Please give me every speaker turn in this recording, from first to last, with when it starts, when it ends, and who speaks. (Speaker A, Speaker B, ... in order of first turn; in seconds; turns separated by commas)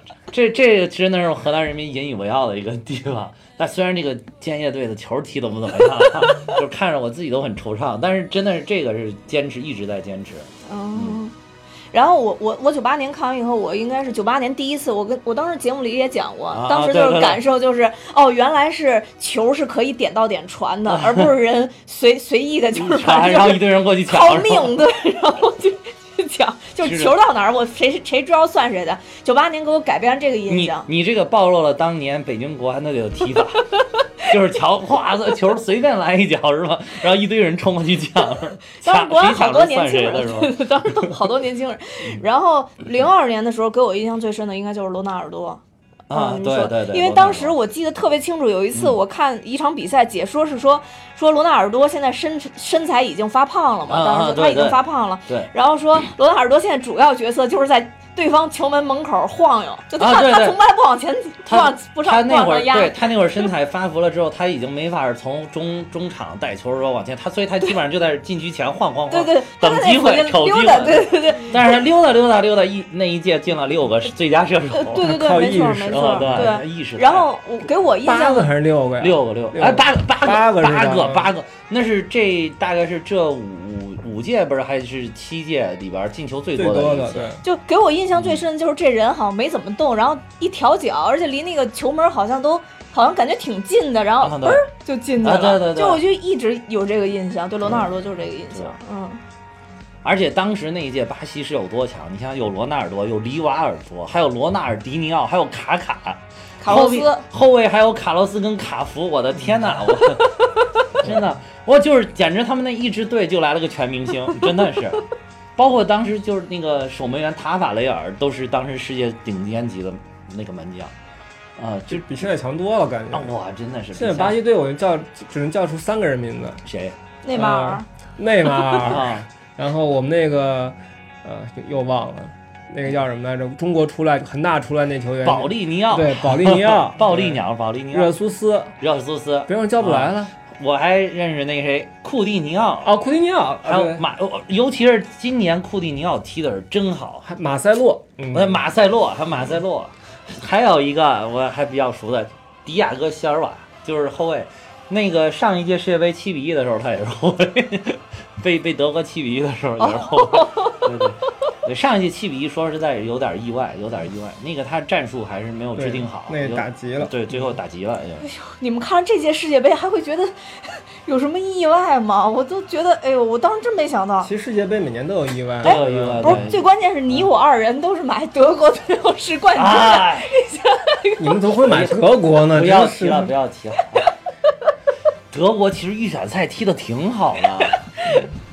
Speaker A: 0.3-11.2, Speaker B: 10.7-11.3, Speaker B: 11.9-30.9, Speaker A: 16.5-17.4, Speaker A: 20.9-21.3, Speaker A: 22.7-24.8, Speaker A: 26.8-27.2, Speaker A: 30.5-33.6, Speaker B: 33.7-34.2, Speaker A: 34.2-41.1, Speaker B: 38.7-62.9, Speaker A: 46.1-47.5, Speaker A: 53.9-55.5, Speaker A: 60.0-60.6, Speaker A: 61.4-75.0, Speaker B: 69.1-71.8, Speaker B: 74.7-78.5, Speaker C: 75.0-76.5, Speaker A: 75.8-77.3, Speaker C: 78.0-81.3, Speaker A: 79.0-87.3, Speaker C: 86.5-87.4, Speaker B: 87.4-99.2, Speaker A: 88.2-88.4, Speaker A: 94.2-94.7, Speaker A: 95.2-96.0, Speaker A: 97.6-97.9, Speaker A: 100.0-110.3, Speaker B: 106.6-107.2, Speaker B: 110.0-110.7, Speaker A: 110.9-115.0, Speaker A: 115.5-120.9, Speaker A: 121.6-122.3, Speaker C: 121.9-123.3, Speaker A: 123.1-124.4, Speaker C: 123.9-126.6, Speaker A: 126.6-127.0, Speaker B: 127.2-127.8, Speaker C: 127.3-137.4, Speaker A: 128.8-129.3, Speaker A: 135.2-138.1, Speaker C: 137.9-138.8, Speaker A: 138.8-142.9, Speaker C: 139.5-140.3, Speaker C: 142.8-144.0, Speaker A: 143.6-147.3, Speaker C: 147.2-148.6, Speaker A: 148.3-168.2, Speaker B: 159.8-160.9, Speaker C: 165.7-167.6, Speaker B: 168.2-174.3, Speaker C: 174.2-176.5, Speaker A: 175.6-176.6, Speaker B: 175.6-181.4, Speaker A: 179.5-180.3, Speaker C: 181.2-183.3, Speaker A: 181.6-184.1, Speaker A: 185.3-187.8